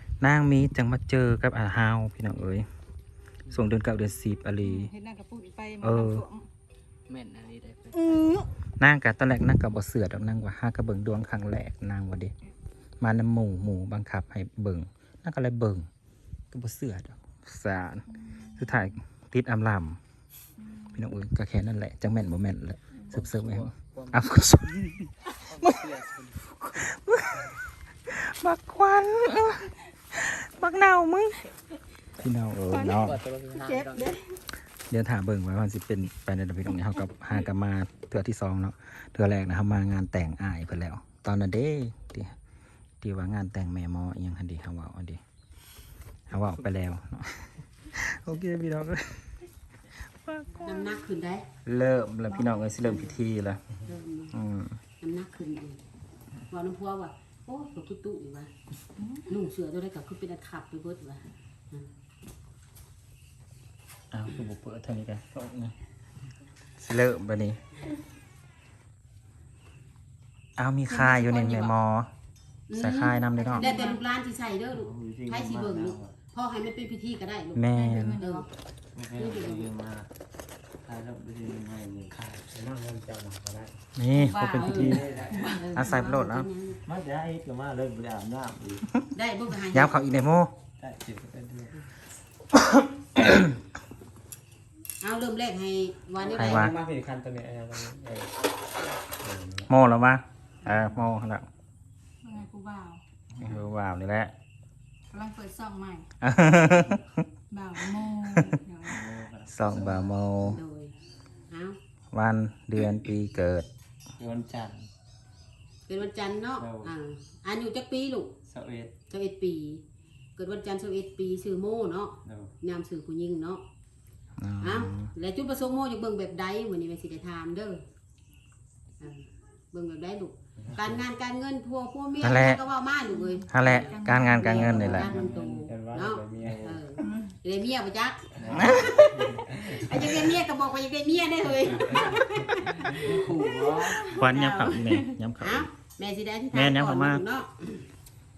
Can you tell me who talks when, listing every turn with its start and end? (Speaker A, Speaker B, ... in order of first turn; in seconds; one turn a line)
Speaker A: 0.2-2.7
Speaker A: 3.5-4.9
Speaker B: 4.6-6.5
Speaker A: 5.8-6.2
Speaker C: 7.1-8.3
Speaker B: 7.9-8.5
Speaker A: 8.8-12.3
Speaker A: 13.0-15.9
Speaker A: 16.5-18.1
Speaker A: 18.6-20.0
Speaker B: 20.6-21.0
Speaker A: 20.9-25.0
Speaker C: 23.1-24.3
Speaker C: 25.5-26.8
Speaker A: 26.8-27.5
Speaker A: 28.1-31.4
Speaker A: 32.2-33.2
Speaker C: 32.9-34.2
Speaker B: 33.7-34.3
Speaker A: 34.9-42.3
Speaker A: 43.0-45.2
Speaker A: 46.3-49.4
Speaker A: 50.2-50.9
Speaker D: 50.6-51.5
Speaker A: 51.7-53.6
Speaker D: 53.9-54.3
Speaker A: 54.3-54.8
Speaker D: 55.0-55.8
Speaker D: 56.5-58.5
Speaker B: 59.0-59.3
Speaker D: 59.3-61.9
Speaker A: 64.1-65.8
Speaker A: 66.8-67.6
Speaker A: 70.6-72.1
Speaker B: 70.9-71.7
Speaker D: 71.3-71.6
Speaker D: 72.7-77.7
Speaker A: 72.7-73.7
Speaker B: 73.5-74.0
Speaker E: 74.8-76.1
Speaker A: 77.5-78.2
Speaker B: 77.7-78.5
Speaker D: 78.2-78.5
Speaker E: 79.0-80.1
Speaker D: 79.1-79.7
Speaker E: 80.9-83.8
Speaker A: 84.0-85.1
Speaker B: 84.2-86.0
Speaker D: 84.5-86.8
Speaker E: 84.7-85.5
Speaker A: 85.7-86.5
Speaker E: 86.9-88.9
Speaker D: 89.2-90.0
Speaker A: 89.7-90.5
Speaker E: 90.8-91.7
Speaker A: 92.7-93.5
Speaker D: 95.0-96.7
Speaker E: 96.2-98.3
Speaker A: 96.3-96.8
Speaker E: 99.2-99.7
Speaker A: 99.7-101.5
Speaker B: 102.2-103.0
Speaker A: 103.4-104.3
Speaker B: 105.1-106.1
Speaker A: 106.2-107.2
Speaker B: 107.5-109.0
Speaker E: 108.9-110.1
Speaker A: 109.5-110.6
Speaker D: 110.5-110.9
Speaker D: 111.5-111.8
Speaker A: 112.1-113.7
Speaker E: 114.2-114.9
Speaker D: 115.9-118.3
Speaker E: 116.6-116.9
Speaker E: 118.5-118.9
Speaker D: 119.1-119.8
Speaker D: 120.4-123.6
Speaker E: 122.2-122.5
Speaker A: 124.4-125.1
Speaker D: 124.6-127.8
Speaker D: 129.0-143.3
Speaker E: 130.6-131.0
Speaker A: 132.2-132.6
Speaker B: 133.1-135.3
Speaker A: 133.5-135.2
Speaker E: 134.9-136.8
Speaker B: 137.0-137.3
Speaker E: 138.4-140.0
Speaker A: 138.5-139.0
Speaker E: 141.8-142.2
Speaker C: 143.0-144.0
Speaker D: 143.9-147.9
Speaker A: 144.1-145.7
Speaker A: 146.5-147.2